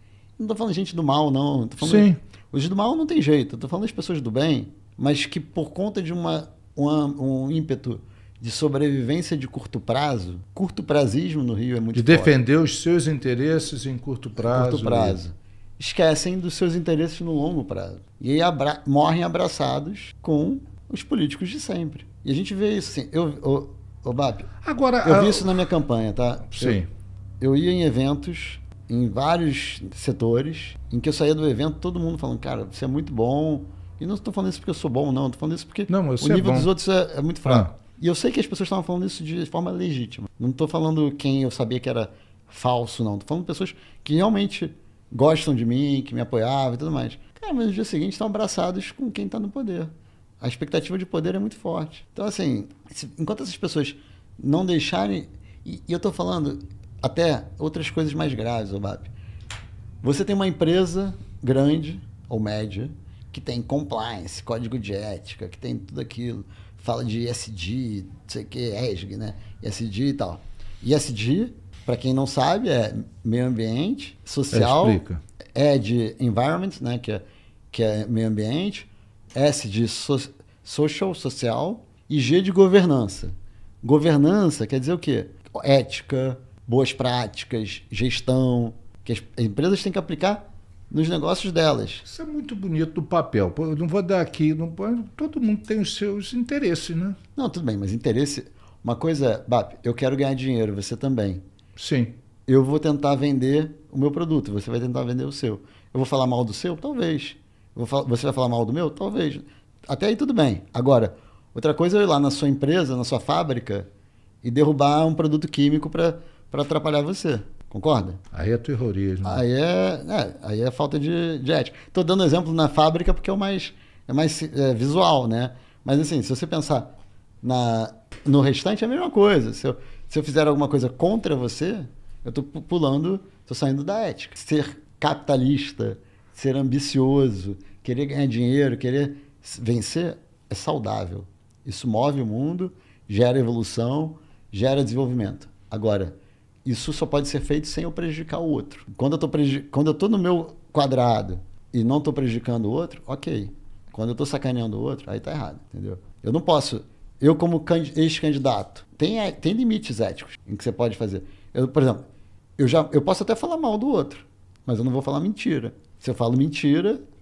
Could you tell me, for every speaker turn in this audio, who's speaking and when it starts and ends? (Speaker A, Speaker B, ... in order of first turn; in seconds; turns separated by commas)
Speaker A: 0.4-12.3, Speaker B: 1.8-2.2, Speaker B: 11.9-15.2, Speaker A: 14.4-24.5, Speaker B: 24.6-25.7, Speaker A: 25.0-26.8, Speaker B: 26.5-26.9, Speaker A: 27.4-59.1, Speaker B: 35.9-36.7, Speaker A: 60.0-75.0, Speaker B: 74.5-75.2, Speaker A: 75.5-92.0, Speaker B: 92.0-97.2, Speaker A: 97.3-101.4, Speaker B: 101.8-102.2, Speaker A: 102.5-113.9, Speaker A: 114.4-118.2, Speaker B: 118.3-119.4, Speaker A: 119.2-126.9, Speaker A: 127.4-146.1, Speaker A: 146.6-162.0, Speaker A: 162.6-167.0